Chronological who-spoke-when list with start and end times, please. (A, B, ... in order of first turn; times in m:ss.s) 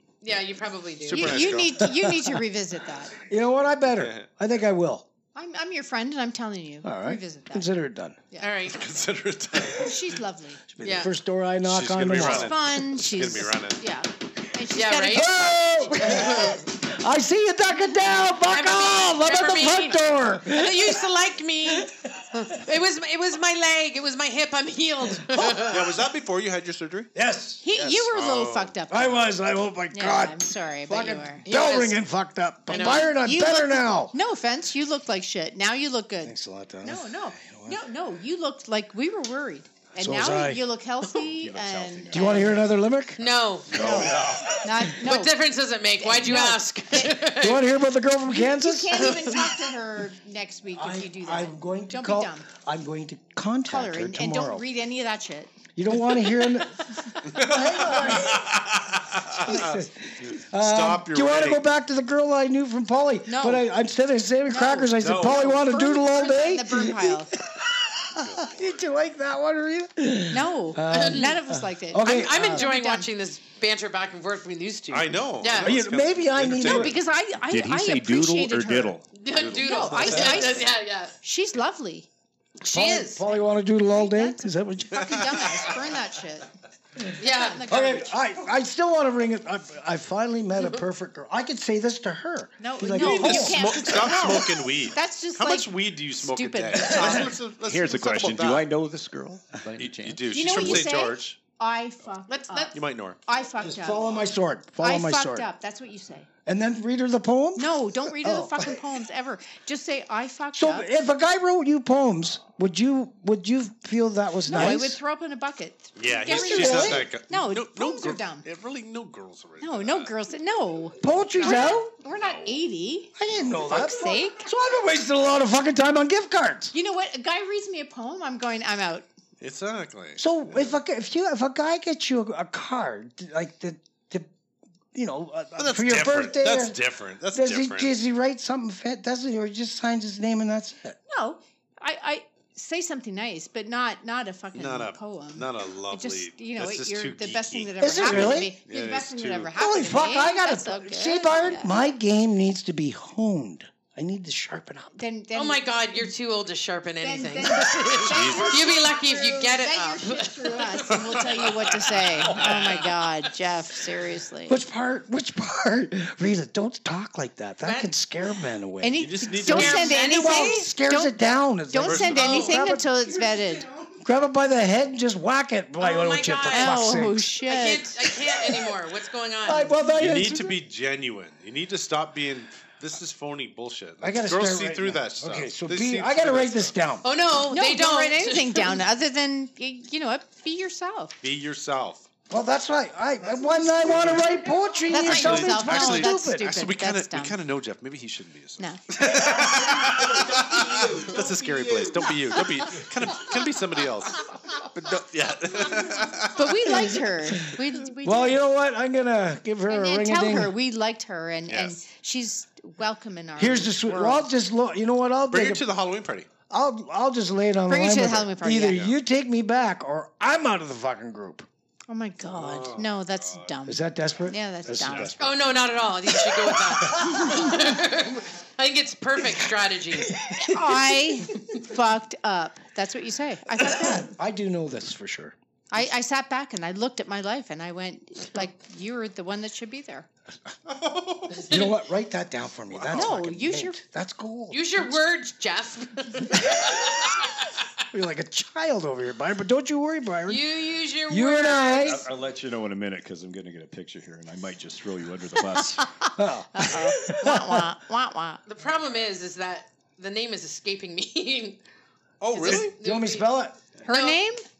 0:00.2-0:01.6 A
0:01.0-0:01.9 B
0:01.1-0:03.1 C
0:01.8-0:02.4 D
0:03.2-0:05.0 D
0:03.9-0:04.3 B
0:05.3-0:07.7 C
0:06.8-0:08.2 D
0:08.4-0:08.8 A
0:08.6-0:10.1 B
0:09.7-0:10.6 C
0:10.7-0:12.6 D
0:10.8-0:11.1 A
0:11.6-0:13.8 B
0:12.1-0:15.9 C
0:14.7-0:15.3 A
0:15.1-0:21.1 D
0:16.0-0:16.6 A
0:18.4-0:26.0 A
0:21.6-0:22.6 D
0:25.2-0:25.7 D
0:25.6-0:27.1 B
0:27.1-0:28.0 D
0:27.6-0:29.4 C
0:28.1-0:28.7 B
0:28.9-0:34.1 D
0:29.9-0:31.5 C
0:31.4-0:32.0 A
0:32.7-0:33.1 A
0:32.7-0:42.6 C
0:36.2-0:37.8 D
0:40.0-0:40.6 D
0:41.3-0:42.7 E
0:42.1-0:44.2 D
0:43.2-0:44.0 A
0:43.7-0:44.5 E
0:43.7-0:45.4 C
0:43.9-0:44.4 B
0:44.8-0:47.7 A
0:46.0-0:47.2 C
0:47.3-0:49.4 D
0:48.3-0:52.5 C
0:49.0-0:49.3 A
0:50.8-0:54.6 D
0:53.6-0:55.5 C
0:55.8-0:58.6 D
0:57.2-1:01.6 B
0:59.3-1:12.7 D
1:03.3-1:03.7 C
1:04.5-1:07.3 C
1:05.0-1:05.5 B
1:08.2-1:08.8 B
1:10.3-1:13.1 C
1:10.9-1:11.3 A
1:12.0-1:15.8 A
1:14.9-1:17.0 B
1:15.6-1:17.0 D
1:16.6-1:19.0 C
1:17.4-1:19.1 E
1:19.1-1:21.1 A
1:19.3-1:20.6 B
1:19.6-1:22.1 C
1:22.6-1:23.2 A
1:22.6-1:25.4 D
1:23.9-1:26.5 C
1:25.1-1:25.7 B
1:27.2-1:28.2 C
1:27.2-1:27.6 A
1:27.6-1:34.4 D
1:32.6-1:37.3 C
1:32.9-1:38.7 B
1:37.0-1:37.3 D
1:37.6-1:40.9 E
1:39.8-1:41.4 B
1:40.3-1:44.2 C
1:42.3-1:42.8 A
1:42.7-1:43.2 B
1:43.6-1:45.5 D
1:44.8-1:46.3 C
1:46.4-1:48.8 D
1:47.6-1:50.9 C
1:50.5-1:55.0 D
1:54.4-1:58.4 C
1:56.0-2:00.1 B
1:56.3-1:57.1 D
1:59.6-2:04.5 C
2:01.0-2:01.9 D
2:01.4-2:02.6 B
2:03.2-2:06.7 D
2:03.3-2:03.7 B
2:06.7-2:09.0 C
2:09.4-2:10.8 B
2:10.2-2:14.3 D
2:14.9-2:16.8 D
2:15.6-2:17.9 B
2:17.3-2:21.0 D
2:21.1-2:31.7 C
2:24.5-2:29.5 B
2:27.8-2:28.5 D
2:29.6-2:35.0 D
2:35.0-2:36.1 C
2:35.3-2:40.8 A
2:37.0-2:44.6 C
2:38.0-2:38.7 B
2:40.9-2:42.9 B
2:42.3-2:42.8 A
2:44.5-2:52.9 D
2:47.6-2:47.9 A
2:48.8-2:51.2 C
2:49.0-2:49.9 B
2:49.5-2:50.7 A
2:51.7-2:53.7 C
2:51.8-2:52.5 B
2:52.2-2:52.6 A
2:54.0-2:57.3 D
2:55.8-2:59.7 A
2:56.5-2:58.0 C
2:58.3-2:58.7 D
2:59.4-3:00.6 D
2:59.9-3:06.7 B
3:04.0-3:07.0 D
3:07.0-3:08.8 A
3:07.5-3:11.2 C
3:11.2-3:12.1 B
3:12.3-3:16.5 D
3:13.8-3:14.2 B
3:14.9-3:17.4 C
3:14.9-3:26.5 B
3:26.3-3:28.4 C
3:26.7-3:30.5 D
3:29.7-3:34.3 C
3:31.5-3:31.8 B
3:33.4-3:35.6 D
3:35.3-3:36.3 B
3:36.5-3:41.5 D
3:37.7-3:38.9 C
3:38.7-3:38.9 B
3:41.9-3:45.4 C
3:42.3-3:43.6 B
3:43.6-3:45.4 D
3:44.6-3:45.2 B
3:45.2-3:50.1 A
3:46.3-3:47.6 D
3:50.0-3:51.0 D
3:50.4-3:54.1 C
3:53.6-3:55.4 D
3:55.7-4:00.1 C
4:00.6-4:01.6 B
4:01.4-4:05.0 D
4:02.7-4:03.2 B
4:02.9-4:03.8 C
4:04.5-4:07.5 A
4:07.9-4:10.4 D
4:10.3-4:12.0 A
4:11.1-4:12.1 D
4:11.8-4:15.9 E
4:15.8-4:18.4 C
4:16.2-4:17.7 D
4:18.5-4:21.6 A
4:22.2-4:22.7 B
4:22.3-4:23.3 A
4:22.4-4:23.6 D
4:23.8-4:24.4 C
4:23.9-4:24.2 A